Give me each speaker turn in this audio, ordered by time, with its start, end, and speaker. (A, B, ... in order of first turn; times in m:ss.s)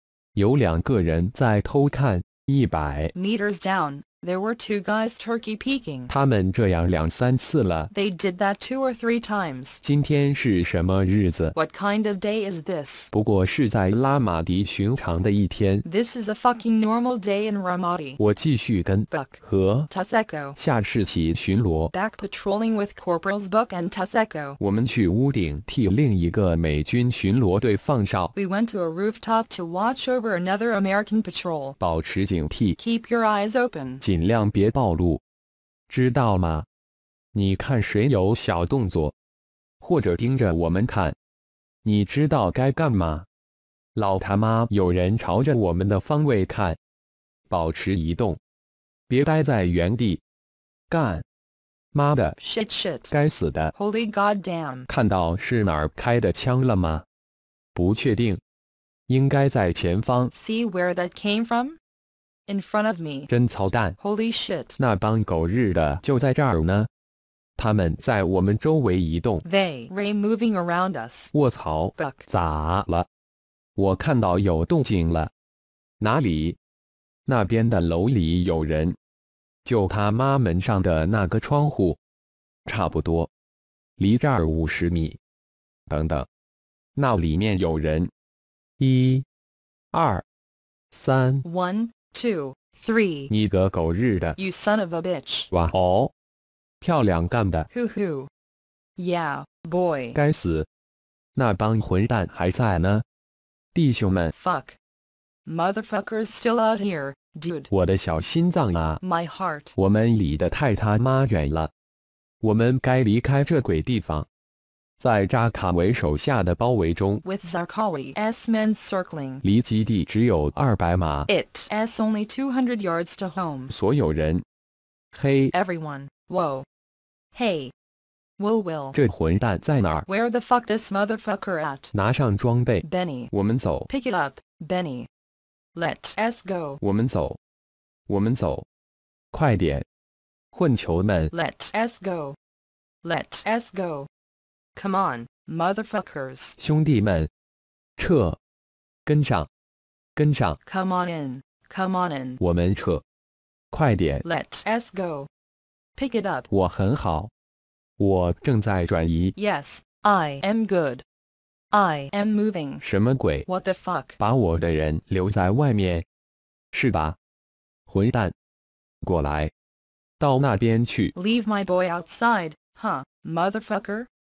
0:00.4-0:03.1 A
0:03.1-0:06.1 B
0:06.1-0:07.9 A
0:07.9-0:09.8 B
0:09.8-0:11.6 A
0:11.5-0:13.1 B
0:13.1-0:15.8 A
0:15.8-0:18.2 B
0:18.2-0:19.9 A
0:19.1-0:20.6 B
0:20.6-0:21.9 A
0:21.9-0:24.6 B
0:24.6-0:28.3 A
0:28.3-0:31.8 B
0:31.8-0:32.8 A
0:32.8-0:34.0 B
0:34.0-0:35.2 A
0:35.9-0:36.7 A
0:37.3-0:39.1 A
0:39.8-0:41.2 A
0:41.8-0:43.3 A
0:44.0-0:46.8 A
0:47.5-0:48.4 A
0:49.1-0:50.2 A
0:50.9-0:51.2 A
0:51.9-0:52.4 A
0:52.4-0:53.1 B
0:53.1-0:53.7 A
0:53.8-0:54.9 B
0:54.9-0:57.0 A
0:57.7-0:58.4 A
0:59.1-1:00.3 A
1:00.3-1:01.8 B
1:02.5-1:03.3 B
1:03.3-1:04.0 A
1:04.0-1:04.8 B
1:04.8-1:06.9 A
1:07.6-1:09.4 A
1:09.4-1:11.3 B
1:11.3-1:13.1 A
1:12.0-1:12.3 B
1:13.8-1:15.3 A
1:16.0-1:16.6 A
1:17.3-1:19.0 A
1:19.6-1:22.0 A
1:22.6-1:23.3 A
1:24.0-1:25.2 A
1:25.9-1:26.3 A
1:27.0-1:28.1 A
1:28.8-1:29.3 A
1:29.9-1:30.2 A
1:30.9-1:31.4 A
1:31.4-1:33.3 B
1:33.3-1:34.4 A
1:34.4-1:35.5 B
1:35.5-1:36.1 A
1:36.8-1:37.7 A
1:37.7-1:38.3 B
1:39.0-1:40.2 B
1:40.1-1:40.7 A
1:41.4-1:43.0 A
1:43.7-1:44.3 A
1:44.3-1:44.8 B
1:45.5-1:47.7 B
1:47.7-1:49.0 A
1:49.0-1:49.8 B
1:49.8-1:51.7 A
1:52.4-1:54.3 A
1:55.0-1:57.2 A
1:57.2-1:59.4 B
1:59.4-2:01.3 A
2:01.3-2:03.7 B
2:03.7-2:04.4 A
2:05.1-2:05.5 A
2:05.5-2:06.7 B
2:07.4-2:07.7 B
2:08.4-2:09.0 B
2:08.9-2:10.1 A
2:10.1-2:11.9 B
2:11.9-2:13.9 A
2:12.8-2:13.3 B
2:13.9-2:15.1 B
2:15.8-2:16.8 B
2:16.8-2:17.4 A
2:18.1-2:18.7 A
2:19.3-2:19.8 A
2:20.5-2:21.3 A
2:21.3-2:22.4 B
2:23.0-2:24.1 B
2:24.8-2:26.6 B
2:26.6-2:27.3 A
2:28.0-2:28.4 A
2:29.1-2:29.5 A
2:30.2-2:30.6 A
2:30.7-2:32.4 B
2:32.4-2:33.0 A
2:33.7-2:34.2 A
2:34.2-2:35.3 B
2:36.0-2:36.5 B
2:36.5-2:37.3 A
2:38.0-2:39.4 A
2:39.4-2:41.0 B
2:41.7-2:42.8 B
2:42.8-2:43.5 A
2:43.5-2:44.2 B
2:44.2-2:46.0 A
2:46.7-2:47.2 A
2:47.9-2:48.3 A
2:49.0-2:49.5 A
2:50.2-2:51.1 A
2:51.1-2:54.1 B